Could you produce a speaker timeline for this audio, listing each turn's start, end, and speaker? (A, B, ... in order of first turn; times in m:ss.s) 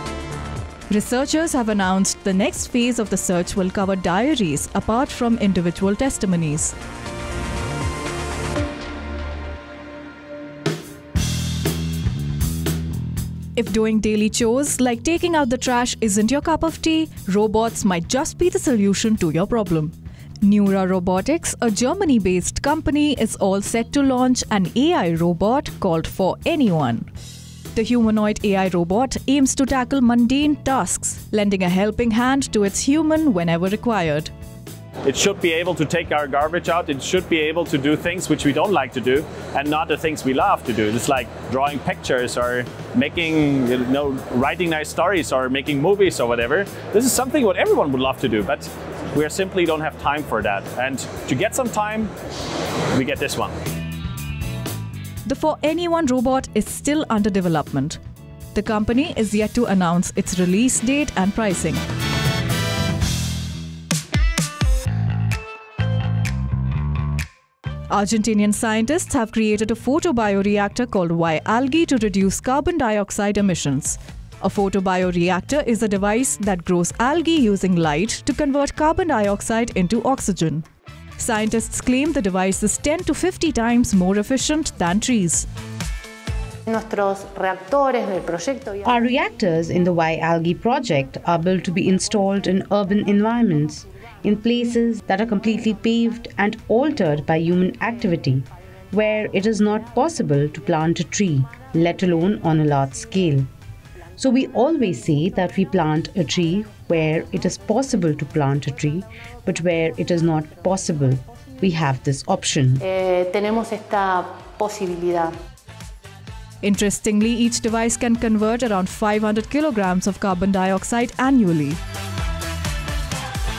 0:00.9-0:06.7 A
0:13.6-0:27.1 A
0:27.7-0:34.3 A
0:35.0-0:52.1 B
0:52.9-0:53.5 B
0:55.2-0:58.0 A
0:58.5-1:01.8 A
1:07.9-1:20.6 A
1:21.2-1:25.5 A
1:26.7-1:28.9 C
1:28.8-1:43.5 D
1:44.2-1:52.8 D
1:52.8-1:55.3 C
1:56.6-2:01.8 A